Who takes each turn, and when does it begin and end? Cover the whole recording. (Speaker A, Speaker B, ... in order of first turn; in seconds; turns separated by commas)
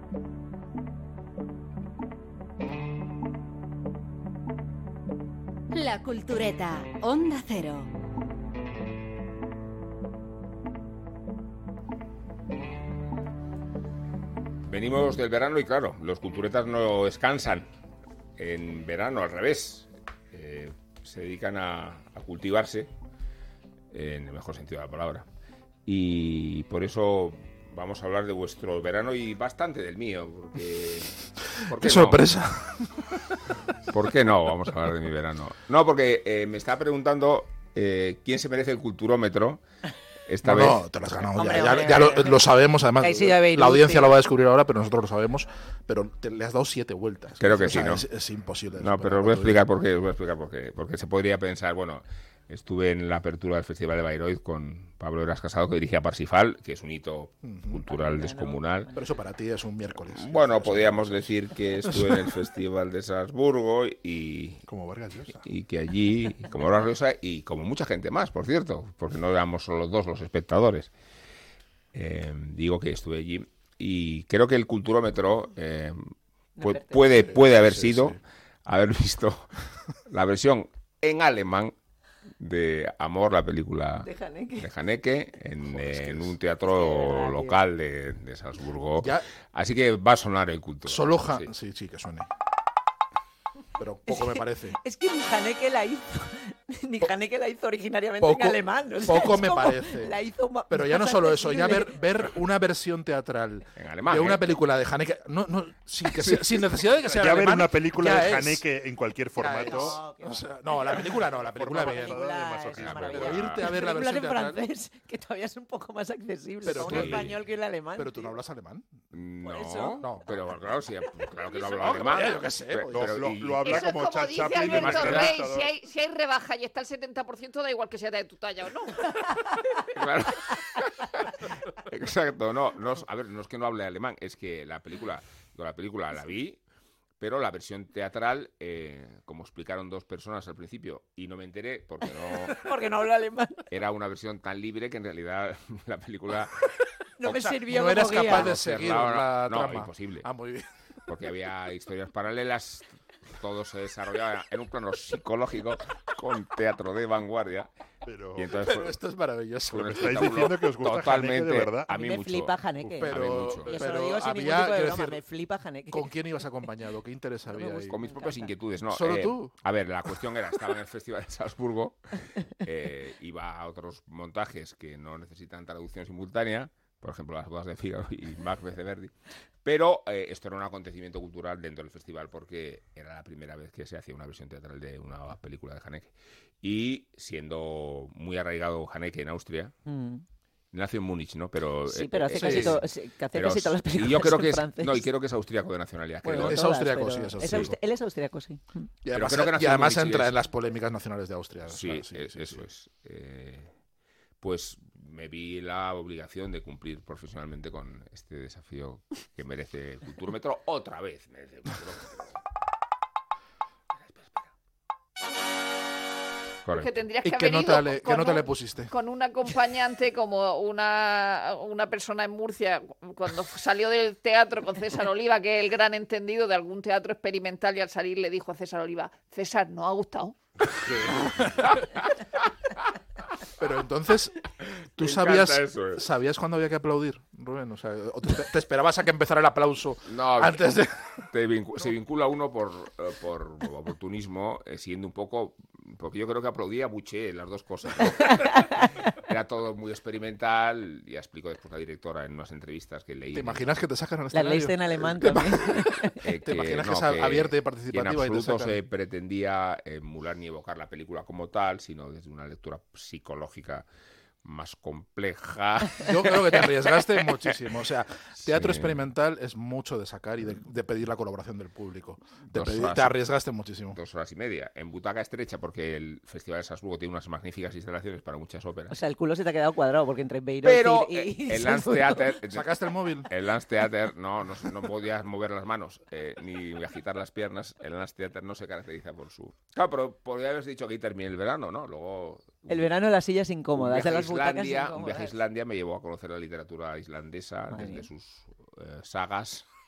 Speaker A: 5.7-7.9, Speaker B: 14.7-17.7, Speaker B: 18.4-22.9, Speaker B: 23.9-25.2, Speaker B: 25.9-32.3, Speaker C: 31.7-33.2, Speaker B: 33.9-39.6, Speaker B: 40.3-40.8, Speaker C: 40.4-49.6, Speaker D: 41.4-44.2, Speaker B: 47.4-48.0, Speaker B: 48.8-58.9, Speaker C: 57.4-57.9, Speaker D: 57.9-59.2, Speaker C: 58.9-62.3, Speaker B: 60.1-64.6, Speaker E: 64.7-65.4, Speaker B: 65.4-70.9, Speaker B: 71.9-76.1, Speaker D: 76.6-77.3, Speaker B: 76.6-79.5, Speaker C: 77.1-78.2, Speaker B: 80.1-81.7, Speaker B: 82.4-91.5, Speaker D: 84.0-84.7, Speaker C: 85.7-86.4, Speaker D: 86.7-87.6, Speaker C: 89.0-89.2, Speaker C: 90.8-92.3, Speaker C: 93.8-94.8, Speaker D: 94.1-102.0, Speaker C: 98.2-108.6, Speaker B: 103.8-104.6, Speaker B: 106.2-106.6, Speaker E: 107.1-110.0, Speaker C: 109.4-112.2, Speaker D: 109.6-111.2, Speaker E: 111.4-113.5, Speaker D: 111.7-118.4, Speaker B: 112.8-113.6, Speaker C: 113.0-114.6, Speaker C: 116.6-117.4, Speaker B: 116.7-117.3, Speaker C: 118.0-118.9, Speaker B: 119.1-123.9, Speaker D: 119.4-120.3, Speaker C: 120.0-120.3, Speaker D: 121.5-122.0, Speaker C: 121.7-123.3, Speaker E: 122.9-125.7, Speaker F: 123.6-129.3, Speaker B: 124.5-125.4, Speaker B: 129.9-131.2, Speaker B: 131.8-136.6, Speaker B: 137.2-142.6, Speaker D: 142.1-143.6, Speaker B: 143.7-146.6, Speaker D: 147.2-148.5, Speaker C: 147.3-150.7, Speaker B: 148.1-150.3, Speaker B: 151.1-157.7, Speaker E: 158.1-158.5, Speaker B: 158.4-159.0, Speaker C: 158.6-160.5, Speaker B: 159.7-163.7, Speaker E: 159.9-161.9, Speaker D: 161.9-163.2, Speaker C: 163.0-165.2, Speaker D: 163.7-166.1, Speaker C: 165.9-168.0, Speaker D: 167.5-168.5, Speaker B: 167.7-179.1, Speaker C: 168.9-169.5, Speaker B: 179.6-189.7, Speaker D: 189.9-190.2, Speaker B: 190.7-196.7, Speaker D: 191.9-195.1, Speaker C: 192.3-192.8, Speaker D: 196.2-198.9, Speaker C: 196.3-197.8, Speaker B: 197.4-197.7, Speaker C: 199.0-202.7, Speaker B: 199.1-200.3, Speaker B: 201.7-203.7, Speaker B: 204.4-212.4, Speaker B: 216.7-217.0, Speaker F: 216.7-230.4, Speaker C: 217.2-218.9, Speaker B: 231.1-232.0, Speaker C: 233.6-234.4, Speaker C: 235.0-241.2, Speaker B: 235.0-236.1, Speaker B: 240.1-253.7, Speaker D: 248.4-248.8, Speaker C: 253.3-258.8, Speaker D: 254.3-256.2, Speaker B: 256.2-263.9, Speaker B: 264.4-267.5, Speaker C: 266.0-274.0, Speaker B: 268.4-269.0, Speaker B: 272.5-273.3, Speaker B: 273.9-279.0, Speaker D: 278.9-282.4, Speaker B: 280.6-282.8, Speaker C: 282.5-283.3, Speaker B: 283.3-292.9, Speaker D: 292.7-295.4, Speaker B: 293.7-299.6, Speaker D: 297.7-298.1